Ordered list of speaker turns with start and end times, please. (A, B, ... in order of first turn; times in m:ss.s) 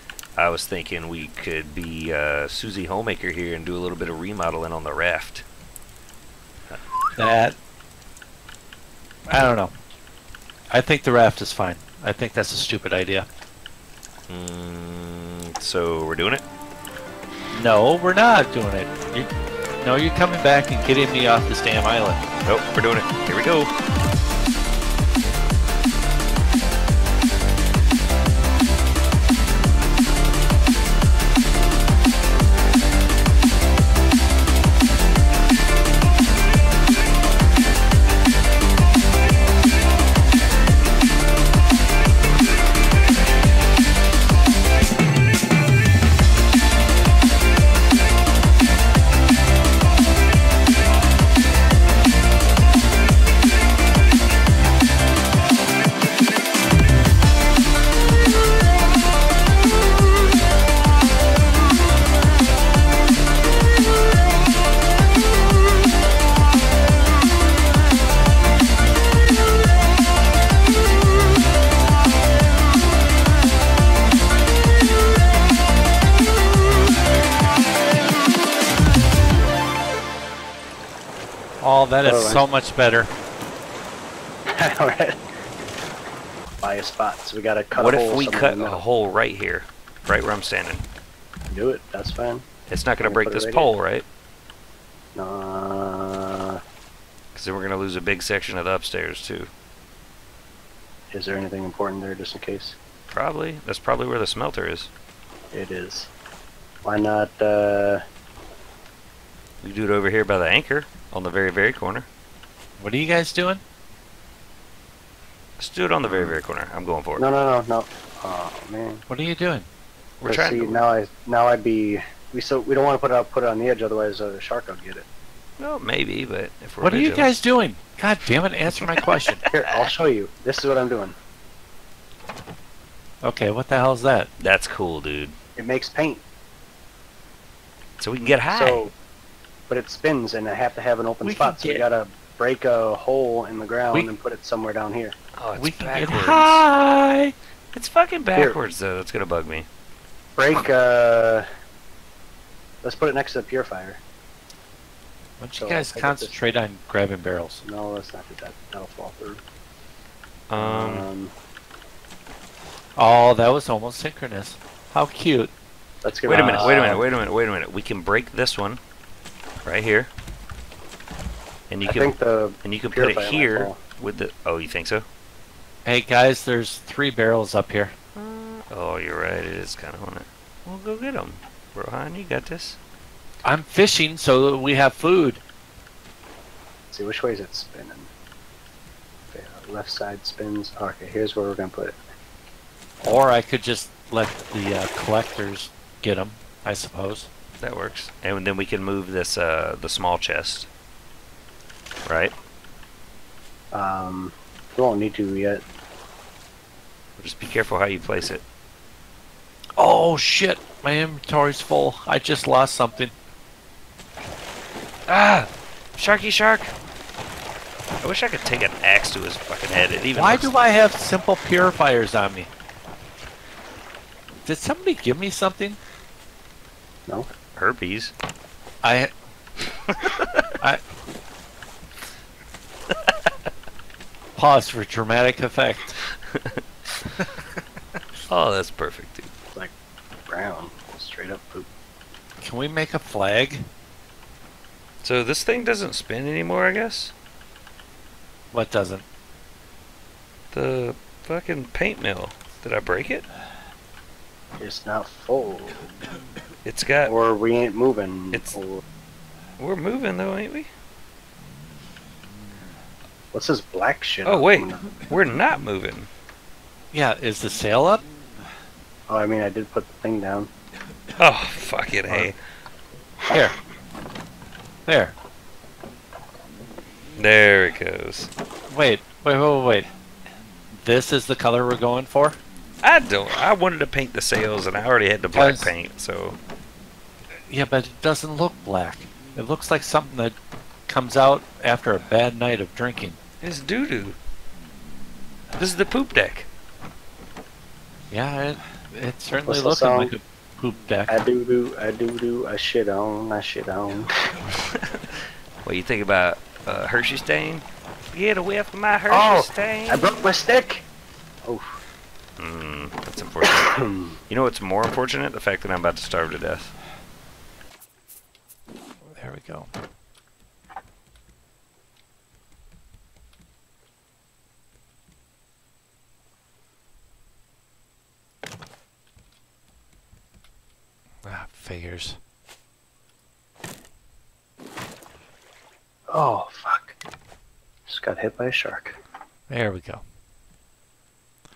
0:00.4-0:05.4 A
0:07.2-0:07.6 B
0:09.3-0:09.7 B
0:10.7-0:13.3 B
0:14.3-0:16.4 A
0:17.5-0:19.3 B
0:19.8-0:22.2 B
0:22.4-0:23.7 A
1:21.6-1:23.1 B
1:22.0-1:22.5 C
1:24.5-1:25.2 C
1:26.6-1:28.8 C
1:27.7-1:30.8 A
1:31.5-1:32.5 C
1:32.7-1:34.1 A
1:33.0-1:33.8 C
1:35.2-1:36.6 C
1:37.4-1:39.5 A
1:41.1-1:42.8 C
1:43.1-1:44.9 A
1:45.5-1:46.1 C
1:46.8-1:48.0 C
1:49.6-1:52.1 A
1:52.8-1:53.6 B
1:55.6-1:57.2 A
1:56.0-1:56.4 C
1:57.2-1:59.0 C
1:59.1-1:59.7 B
2:00.2-2:00.8 A
2:00.3-2:05.1 C
2:05.6-2:07.4 A
2:06.8-2:09.4 B
2:09.0-2:09.9 A
2:09.5-2:11.2 C
2:13.2-2:14.3 B
2:14.4-2:15.4 A
2:15.6-2:16.2 C
2:18.0-2:18.8 A
2:18.5-2:19.0 C
2:19.7-2:25.2 C
2:21.2-2:21.8 B
2:25.4-2:26.6 A
2:25.6-2:27.3 B
2:27.7-2:29.7 A
2:30.4-2:31.5 C
2:32.8-2:34.0 C
2:35.4-2:37.6 B
2:35.6-2:36.4 C
2:37.6-2:39.4 C
2:40.5-2:41.1 A
2:40.6-2:41.3 C
2:43.0-2:45.5 B
2:46.0-2:47.1 C
2:46.3-2:48.8 A
2:46.3-2:47.0 B
2:49.6-2:50.1 A
2:51.7-2:55.1 A
2:51.8-2:53.8 C
2:55.8-2:57.9 B
2:58.2-3:02.8 A
3:03.4-3:05.4 B
3:06.9-3:08.1 C
3:09.3-3:12.0 C
3:13.0-3:17.3 B
3:17.6-3:20.7 A
3:22.1-3:22.4 A
3:23.7-3:25.6 C
3:27.2-3:28.4 A
3:29.8-3:33.1 B
3:35.1-3:36.7 A
3:38.0-3:40.5 A
3:40.2-3:42.5 B
3:44.4-3:45.8 B
3:47.6-3:48.1 A
3:48.8-3:49.1 B
3:49.9-3:50.3 A
3:54.4-3:56.0 B
3:56.4-3:56.6 A
3:58.3-3:59.3 A
4:00.3-4:01.7 C
4:02.4-4:03.7 B
4:05.0-4:07.1 A
4:08.5-4:09.0 B
4:10.5-4:13.3 A
4:14.6-4:15.9 C
4:16.6-4:17.2 A
4:17.0-4:18.8 C
4:18.3-4:18.6 A
4:19.6-4:20.7 A
4:23.3-4:25.0 C
4:24.2-4:26.1 A
4:26.9-4:28.0 B
4:29.1-4:30.5 C
4:31.2-4:32.4 A
4:33.3-4:33.6 B
4:34.9-4:35.1 B
4:37.1-4:38.3 A
4:38.7-4:39.9 B
4:40.7-4:42.4 B
4:42.8-4:46.4 A
4:45.3-4:45.7 B
4:47.5-4:50.4 B
4:50.9-4:53.2 B
4:53.4-4:54.2 A
4:55.6-4:56.5 A
4:58.1-5:01.1 B
4:59.5-5:00.1 C
5:01.1-5:04.1 C
5:05.6-5:10.1 A
5:09.1-5:10.8 C
5:11.4-5:11.8 C
5:12.4-5:13.8 A
5:13.4-5:14.2 C
5:14.3-5:16.7 A
5:19.1-5:19.7 B
5:31.2-5:32.2 B
5:36.1-5:37.0 C
5:37.9-5:39.0 C
5:39.5-5:40.0 B